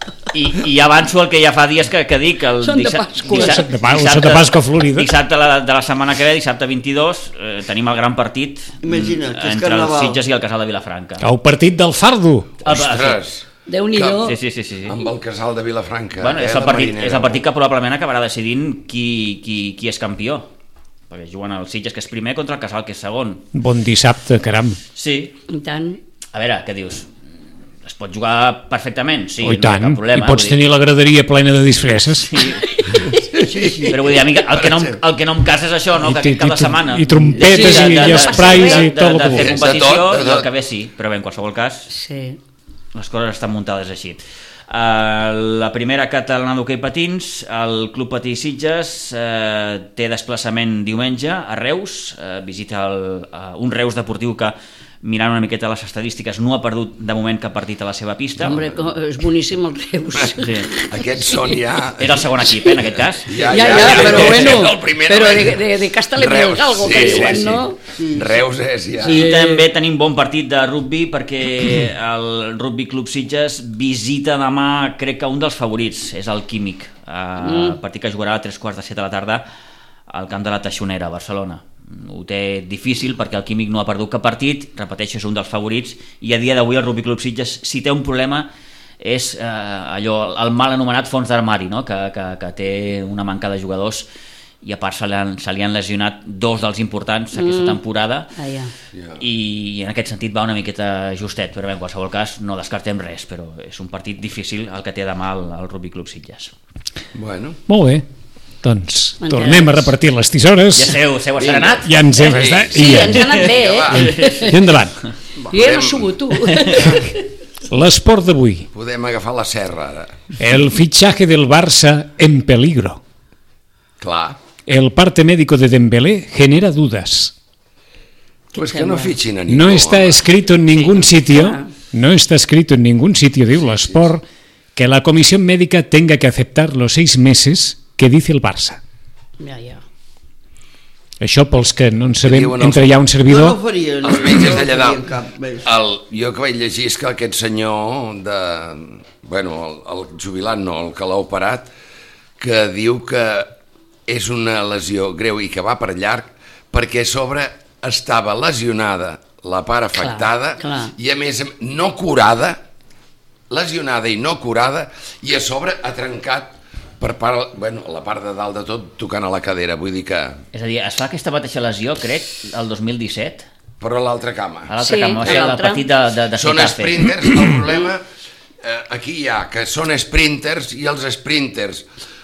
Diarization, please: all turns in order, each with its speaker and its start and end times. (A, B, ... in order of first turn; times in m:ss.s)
0:00.3-0:11.3 A
0:02.6-0:03.7 B
0:03.3-0:05.1 C
0:08.8-0:10.2 D
0:11.2-0:12.5 C
0:12.6-0:13.2 A
0:12.7-0:14.3 E
0:13.7-0:14.4 B
0:14.2-0:15.0 A
0:14.8-0:17.4 E
0:16.2-0:20.5 A
0:21.1-0:23.4 A
0:23.5-0:24.8 C
0:24.9-0:25.3 A
0:25.5-0:26.0 B
0:26.3-0:27.1 A
0:27.8-0:30.6 A
0:29.4-0:32.3 C
0:32.2-0:32.8 A
0:32.7-0:33.2 B
0:33.2-0:34.0 D
0:33.8-0:41.9 A
0:34.6-0:34.9 E
0:36.0-0:39.6 C
0:37.4-0:38.9 B
0:39.3-0:40.5 E
0:41.9-0:42.4 B
0:42.9-0:58.6 A
0:58.4-1:00.8 B
1:00.4-1:00.7 A
1:00.8-1:02.2 E
1:02.0-1:04.6 A
1:03.2-1:09.3 E
1:03.4-1:07.8 B
1:03.8-1:04.3 D
1:06.9-1:07.3 A
1:07.9-1:08.3 D
1:09.0-1:09.6 B
1:09.0-1:19.4 A
1:17.4-1:17.8 B
1:20.1-1:28.5 A
1:29.0-1:34.1 A
1:34.6-1:38.3 A
1:37.3-1:37.8 B
1:38.4-1:38.7 B
1:38.9-1:39.2 E
1:39.2-1:46.5 A
1:47.1-1:47.6 E
1:47.7-1:48.0 C
1:48.6-1:51.0 C
1:49.2-1:49.8 B
1:50.7-1:52.4 A
1:51.4-1:54.4 E
1:51.8-1:53.4 C
1:52.7-1:54.6 B
1:53.0-1:53.3 A
1:53.9-1:54.9 C
1:53.9-1:54.4 A
1:55.5-1:57.2 B
1:55.5-1:57.1 E
1:57.7-1:58.6 C
1:58.7-2:00.1 E
2:00.4-2:03.0 C
2:04.0-2:04.4 E
2:04.7-2:07.3 C
2:08.5-2:09.2 B
2:08.6-2:10.2 E
2:09.5-2:14.2 C
2:11.3-2:11.7 B
2:14.7-2:18.8 C
2:19.4-2:19.8 B
2:21.2-2:23.6 C
2:22.2-2:23.0 E
2:23.2-2:25.6 D
2:24.0-2:25.0 E
2:25.6-2:31.7 E
2:32.4-2:33.5 E
2:34.1-2:42.6 E
2:40.0-2:40.9 B
2:43.5-2:50.4 E
2:50.5-2:53.4 A
2:53.8-2:55.5 E
2:54.7-2:57.1 A
2:54.8-2:55.8 B
2:56.3-2:58.0 E
2:58.6-3:01.8 E